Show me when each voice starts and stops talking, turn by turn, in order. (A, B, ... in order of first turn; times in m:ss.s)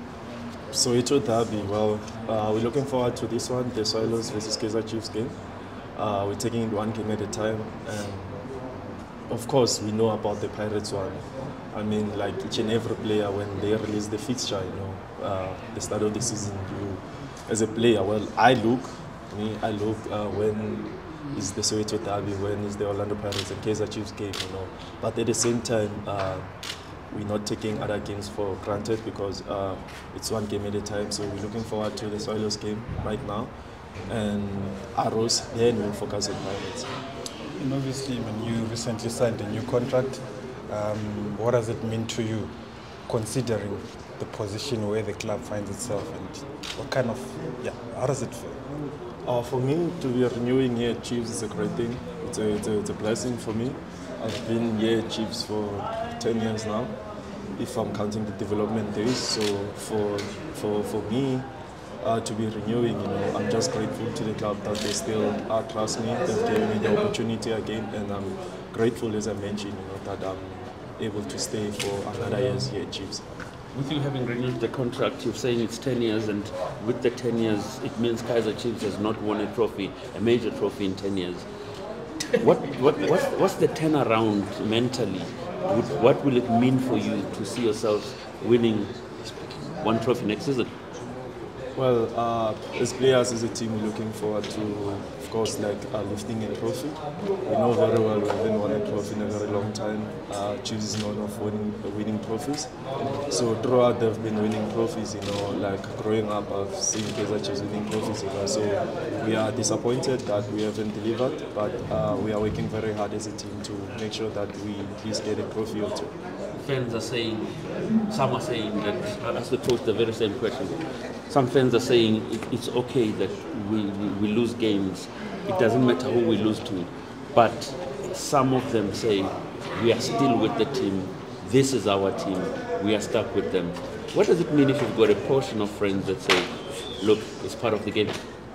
0:00.7-0:08.6 A
0:09.3-0:26.5 A
0:27.1-0:36.9 A
0:37.6-0:48.6 B
0:49.2-1:01.4 A
1:02.0-1:13.2 A
1:13.7-1:21.4 C
1:22.4-1:30.7 C
1:31.7-1:42.7 A
1:43.3-1:56.1 A
1:56.5-2:18.2 C